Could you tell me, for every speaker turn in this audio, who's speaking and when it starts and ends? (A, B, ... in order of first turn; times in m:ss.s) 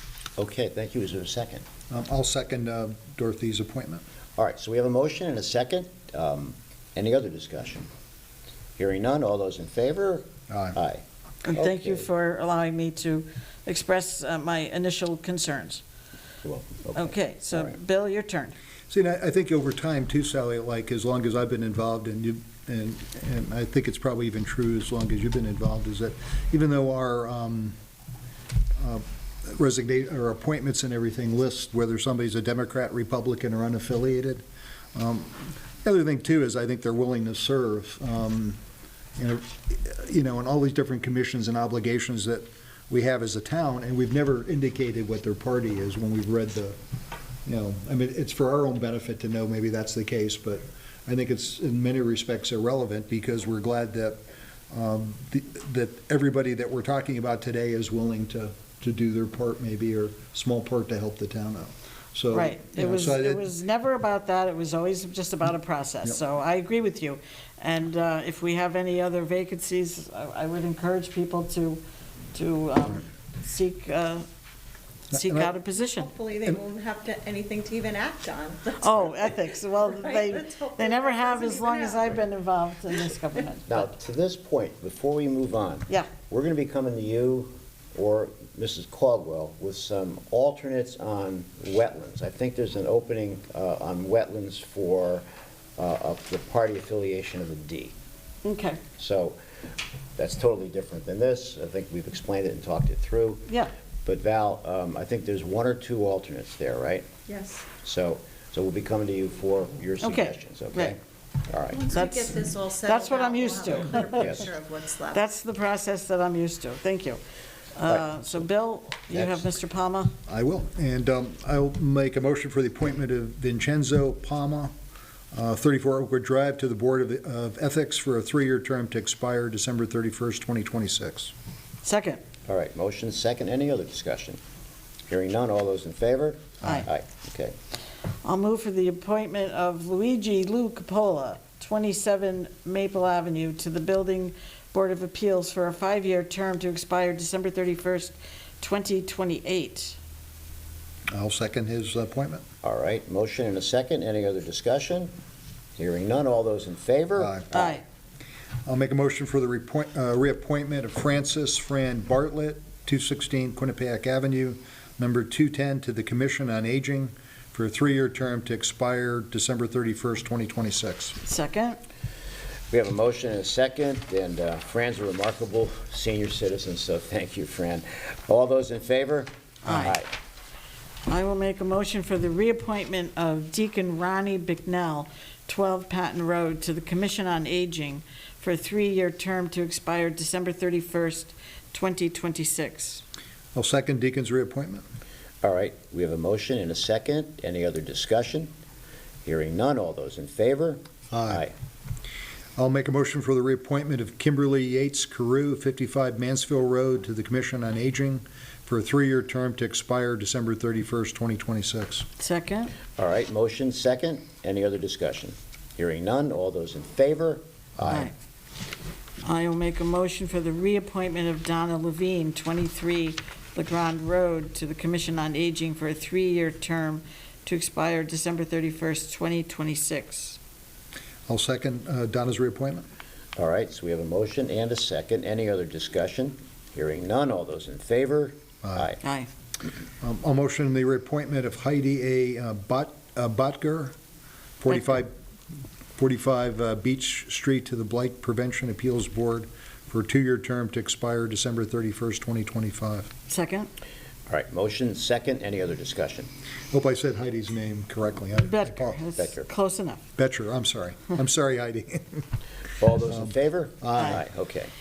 0:00.4-0:01.6 A
0:01.9-0:04.0 B
0:04.4-0:07.9 A
0:08.8-0:12.1 A
0:10.5-0:10.8 B
0:11.4-0:15.8 C
0:16.4-0:17.8 A
0:16.9-0:18.5 C
0:18.9-0:27.7 B
0:28.8-0:38.6 B
0:39.2-0:46.8 B
0:47.4-0:54.2 B
0:54.7-1:03.4 B
1:02.3-1:11.8 C
1:12.3-1:14.2 C
1:15.1-1:15.5 B
1:15.1-1:16.1 C
1:16.0-1:22.1 D
1:18.8-1:23.8 C
1:23.7-1:35.2 A
1:35.8-1:37.9 A
1:38.4-1:38.8 C
1:39.0-1:39.4 A
1:40.2-1:43.5 A
1:44.0-1:47.1 A
1:47.3-1:47.7 D
1:47.8-1:51.9 A
1:50.0-1:50.9 C
1:51.7-1:55.2 D
1:51.9-1:54.4 C
1:54.2-1:54.5 A
1:55.1-1:57.2 C
1:57.8-2:00.1 C
1:57.9-1:58.3 A
1:59.1-1:59.5 A
2:00.3-2:04.7 B
2:05.3-2:11.3 B
2:11.8-2:12.2 C
2:12.4-2:14.4 A
2:15.1-2:17.5 A
2:16.6-2:16.9 C
2:18.2-2:30.0 C
2:31.1-2:32.4 B
2:32.6-2:35.1 A
2:35.8-2:37.8 A
2:37.2-2:37.5 B
2:37.5-2:37.8 C
2:38.7-2:51.2 B
2:51.2-2:51.8 C
2:52.7-3:00.1 A
2:59.6-3:00.0 C
3:01.1-3:13.0 C
3:13.5-3:14.8 B
3:15.4-3:18.5 A
3:19.2-3:21.5 A
3:21.1-3:21.4 B
3:22.6-3:32.1 B
3:32.2-3:32.7 C
3:33.0-3:38.1 A
3:37.8-3:38.1 C
3:39.2-3:50.4 C
3:51.3-3:52.8 B
3:53.4-3:59.0 A
3:58.6-3:58.9 B
3:59.0-3:59.3 C
4:00.0-4:03.9 B
4:04.6-4:05.1 B
4:06.0-4:13.1 B
4:13.3-4:13.7 C
4:14.3-4:16.3 A
4:16.7-4:19.0 B
4:18.4-4:20.0 C
4:19.2-4:19.5 A
4:20.2-4:22.2 B
4:22.8-4:24.7 A
4:23.0-4:24.2 B